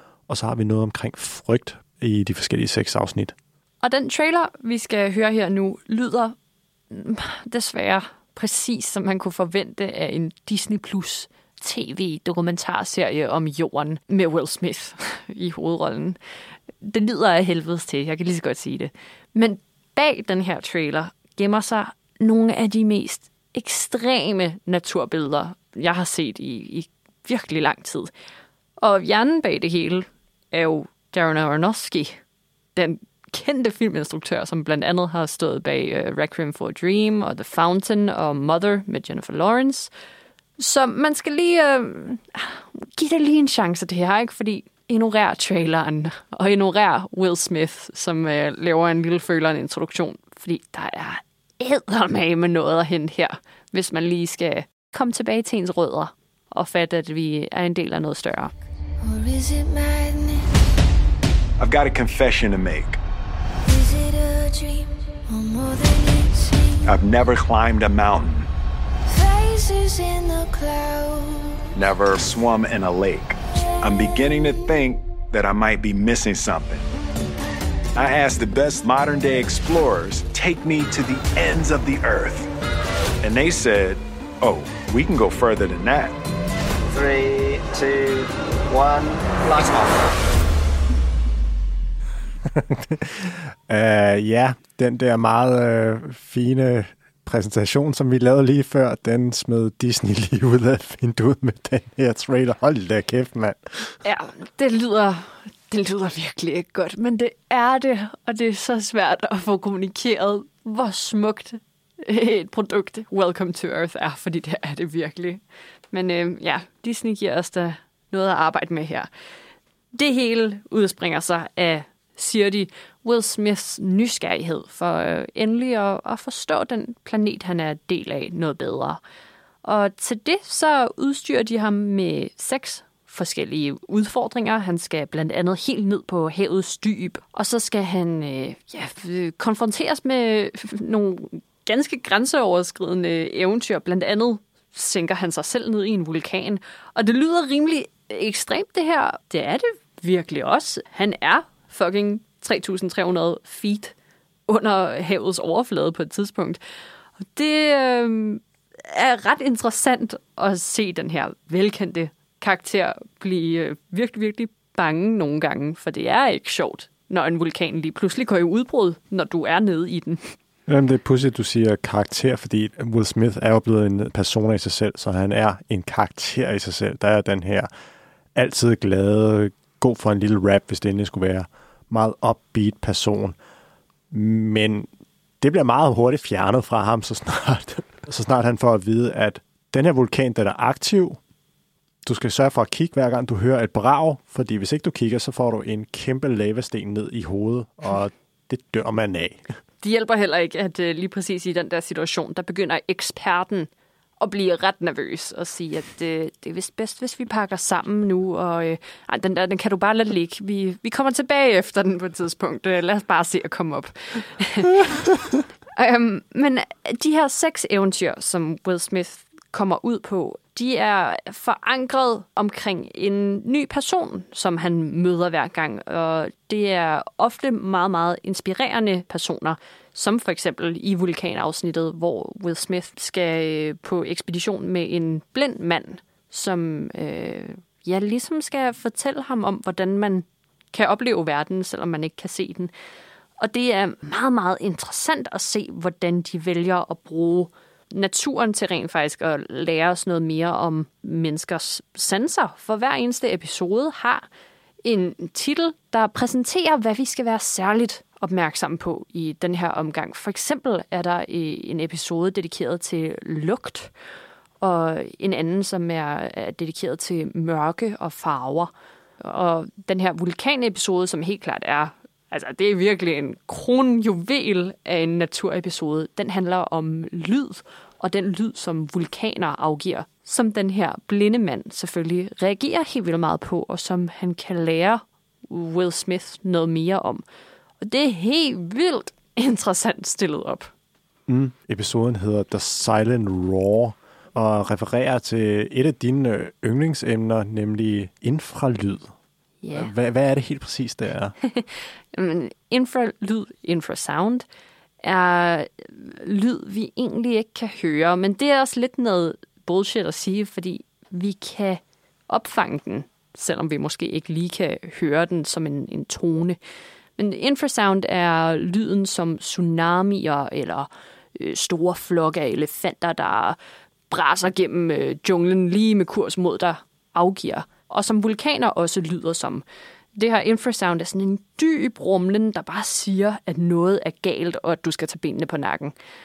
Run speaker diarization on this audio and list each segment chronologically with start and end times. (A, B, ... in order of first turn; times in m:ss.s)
0:00.3-0:03.3 A
0:03.8-0:06.4 B
0:06.9-0:16.2 B
0:16.8-0:28.1 B
0:28.8-0:32.2 B
0:32.8-0:39.9 B
0:40.6-0:58.5 B
0:59.0-1:00.5 C
1:01.6-1:03.0 D
1:03.7-1:06.9 C
1:06.9-1:08.5 D
1:09.1-1:11.6 C
1:11.8-1:16.8 D
1:18.0-1:22.5 D
1:23.2-1:26.2 D
1:26.9-1:29.9 E
1:32.5-1:44.0 A
1:44.0-1:55.4 B
1:55.9-1:59.1 B
1:59.9-2:09.0 B
2:09.6-2:33.9 B
2:34.5-2:36.6 B
2:37.4-2:50.2 B
2:50.7-2:57.7 A
2:58.4-3:03.4 A
3:04.1-3:04.9 A
3:05.4-3:11.2 A
3:12.0-3:19.4 A
3:19.8-3:35.2 B
3:35.8-4:02.7 B
4:03.4-4:14.3 B
4:14.8-4:23.9 B
4:24.6-4:28.7 B
4:29.2-4:47.2 B
4:47.8-4:50.7 B
4:51.3-4:59.1 A
4:59.6-4:59.9 B
4:59.7-5:01.4 A
5:01.4-5:04.4 B
5:05.0-5:16.6 B
5:17.2-5:23.6 B
5:24.1-5:29.6 B
5:30.2-5:36.0 B